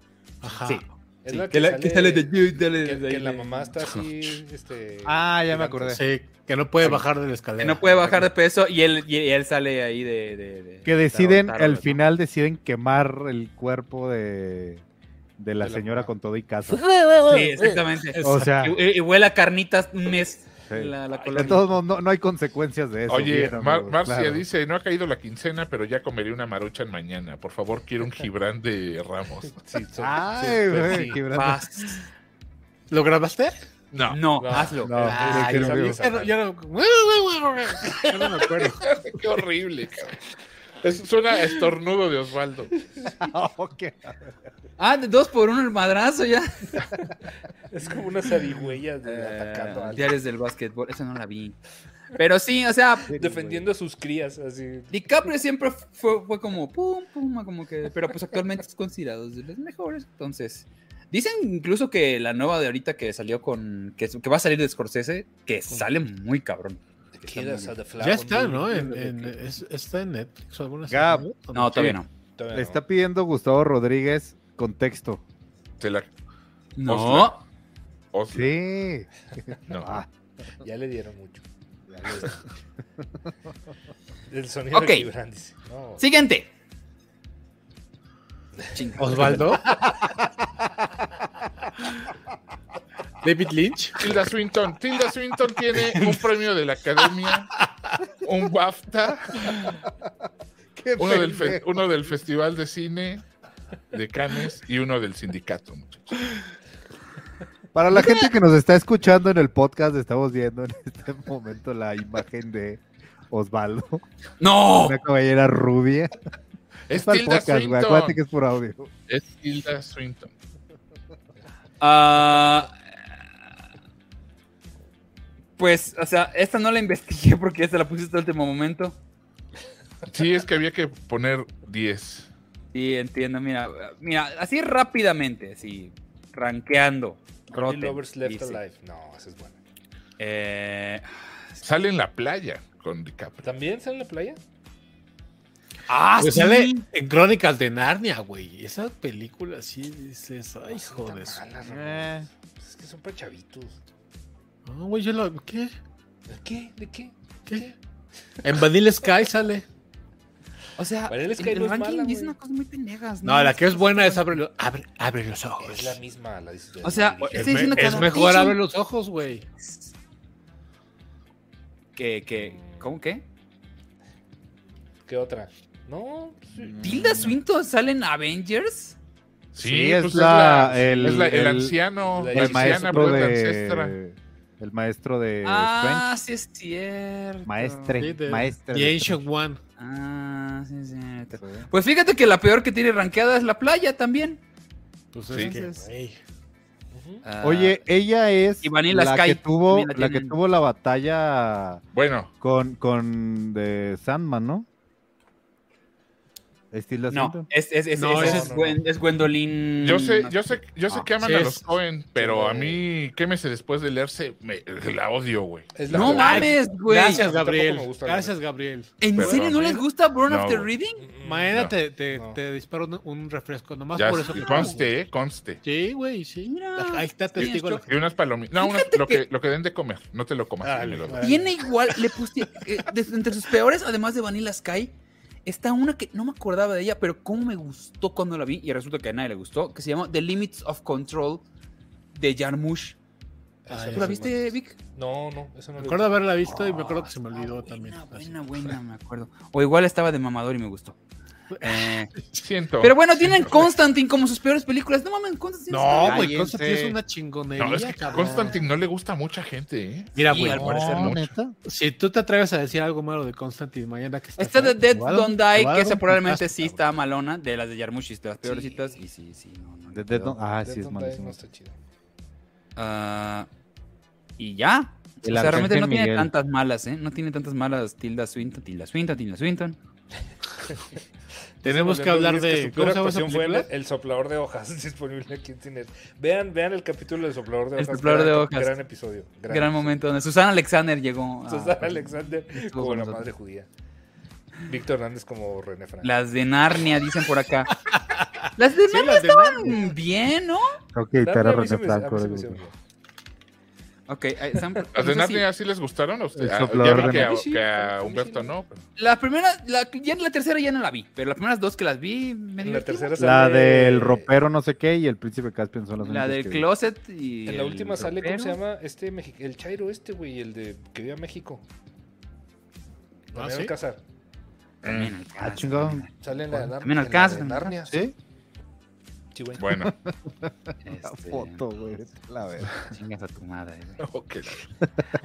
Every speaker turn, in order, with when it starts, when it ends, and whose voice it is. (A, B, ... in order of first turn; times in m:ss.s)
0:00.4-0:00.8 A
0:00.6-0:03.7 B
0:01.2-0:06.0 C
0:03.8-0:04.3 D
0:05.0-0:06.0 E
0:05.9-0:08.3 A
0:07.6-0:12.0 B
0:10.8-0:14.8 E
0:15.4-0:17.0 E
0:15.6-0:16.1 C
0:17.2-0:17.4 A
0:17.2-0:21.7 B
0:18.1-0:18.5 A
0:18.2-0:18.8 E
0:20.7-0:24.4 E
0:23.1-0:29.6 D
0:29.5-0:31.2 C
0:30.0-0:31.6 E
0:31.3-0:32.0 B
0:32.9-0:33.6 A
0:33.9-0:34.2 D
0:34.1-0:35.1 B
0:34.4-0:36.3 C
0:34.8-0:36.0 E
0:35.0-0:38.9 A
0:38.8-0:40.2 D
0:40.8-0:42.7 D
0:43.2-0:44.2 E
0:44.8-0:46.8 B
0:47.7-0:50.2 C
0:49.0-0:51.6 B
0:52.2-0:53.1 B
0:53.1-0:53.7 E
0:53.1-0:54.9 C
0:54.9-1:07.8 B
1:07.2-1:09.4 C
1:08.0-1:12.0 A
1:10.9-1:11.3 E
1:11.5-1:12.1 B
1:12.4-1:12.8 C
1:12.5-1:15.2 E
1:15.8-1:16.1 D
1:16.8-1:17.4 B
1:16.9-1:17.4 D
1:18.1-1:18.6 D
1:18.3-1:19.1 E
1:19.7-1:20.0 D
1:19.8-1:20.1 E
1:20.6-1:21.4 C
1:21.9-1:22.4 E
1:22.1-1:22.4 C
1:24.3-1:26.0 C
1:24.7-1:25.1 B
1:26.0-1:26.5 B
1:28.7-1:30.0 C
1:28.7-1:29.6 B
1:29.0-1:29.7 A
1:33.2-1:34.1 A
1:34.0-1:37.5 D
1:35.8-1:36.2 A
1:38.2-1:39.8 D
1:40.8-1:41.6 E
1:41.0-1:43.2 D
1:43.9-1:46.3 D
1:47.7-1:54.0 E
1:54.4-1:55.0 B
1:54.8-1:56.1 E
1:56.9-1:58.2 D
1:57.0-1:58.9 E
1:59.1-2:00.3 D
2:01.8-2:02.7 B
2:05.6-2:09.0 B
2:10.1-2:12.3 D
2:12.7-2:18.6 B
2:17.5-2:19.6 C
2:20.2-2:21.1 B
2:21.6-2:23.5 D
2:23.4-2:24.4 C
2:25.9-2:26.8 B
2:26.2-2:31.4 A
2:30.7-2:33.8 C
2:31.6-2:32.3 E
2:34.7-2:35.7 A
2:36.3-2:37.7 C
2:37.5-2:37.7 A
2:38.4-2:39.6 A
2:40.8-2:44.3 B
2:41.1-2:42.4 C
2:43.2-2:46.0 A
2:45.6-2:48.2 C
2:46.8-2:48.6 B
2:47.3-2:49.5 A
2:49.6-2:49.9 B
2:52.0-2:53.2 B
2:55.1-2:57.2 C
2:56.6-2:57.4 E
2:56.8-2:59.0 B
2:59.5-3:04.0 D
2:59.6-3:01.8 E
3:00.9-3:01.5 C
3:02.1-3:03.4 C
3:02.3-3:06.1 E
3:05.4-3:08.1 B
3:07.5-3:09.2 E
3:08.0-3:09.6 A
3:09.8-3:14.4 B
3:11.3-3:11.7 E
3:15.1-3:16.2 A
3:15.3-3:15.6 D
3:15.4-3:15.9 C
3:16.9-3:17.2 C
3:17.2-3:17.9 B
3:17.4-3:21.8 E
3:18.6-3:20.4 B
3:21.9-3:22.3 D
3:22.4-3:24.7 E
3:26.7-3:27.5 E
3:27.1-3:31.0 B
3:27.9-3:28.5 A
3:28.1-3:28.8 C
3:29.8-3:36.4 D
3:31.2-3:31.7 A
3:32.2-3:32.8 C
3:35.8-3:38.4 C
3:35.9-3:37.2 B
3:36.0-3:39.5 A
3:39.0-3:41.0 B
3:39.1-3:40.7 D
3:41.0-3:42.4 C
3:41.2-3:44.9 A
3:43.9-3:45.6 D
3:44.1-3:44.8 B
3:45.6-3:47.9 A
3:46.4-3:47.8 B
3:47.8-3:51.3 D
3:48.6-3:49.2 B
3:50.6-3:51.9 C
3:51.2-3:54.9 B
3:55.4-4:01.4 B
4:02.1-4:03.0 B
4:03.6-4:06.2 C
4:03.7-4:04.3 A
4:03.9-4:04.8 B
4:05.8-4:08.8 A
4:06.4-4:11.0 B
4:11.5-4:12.4 A
4:11.6-4:12.1 B
4:12.4-4:13.0 D
4:12.8-4:16.4 B
4:13.3-4:13.6 A
4:15.7-4:18.6 A
4:16.0-4:17.0 E
4:17.6-4:21.3 D
4:20.2-4:26.5 A
4:20.3-4:20.8 B
4:20.5-4:21.5 E
4:24.4-4:30.4 B
4:28.4-4:29.0 C
4:29.9-4:31.4 E
4:30.6-4:31.8 C
4:32.8-4:33.5 B
4:34.4-4:39.8 B
4:35.2-4:36.3 E
4:41.6-4:43.7 A
4:41.6-4:50.0 C
4:47.8-4:48.8 B
4:49.5-4:53.3 B
4:51.5-4:53.7 C
4:54.7-4:56.1 C
4:56.0-4:57.8 B
4:58.6-5:00.8 B
4:58.8-5:00.0 A
5:00.9-5:02.6 E
5:01.2-5:02.7 C
5:04.1-5:05.4 B
5:04.9-5:08.8 D
5:06.4-5:07.4 E
5:06.8-5:08.6 C
5:09.0-5:13.2 B
5:12.6-5:14.3 C
5:13.2-5:16.7 E
5:16.0-5:18.6 B
5:17.5-5:21.6 C
5:23.3-5:24.0 C
5:23.4-5:23.7 A
5:24.8-5:25.2 D
5:24.8-5:26.1 B
5:25.4-5:26.7 E
5:26.2-5:28.1 C
5:26.8-5:27.8 B
5:27.9-5:28.2 E
5:29.3-5:29.9 C
5:29.6-5:29.9 D
5:29.8-5:32.8 E
5:30.8-5:31.7 B
5:32.9-5:34.0 B
5:34.0-5:34.7 D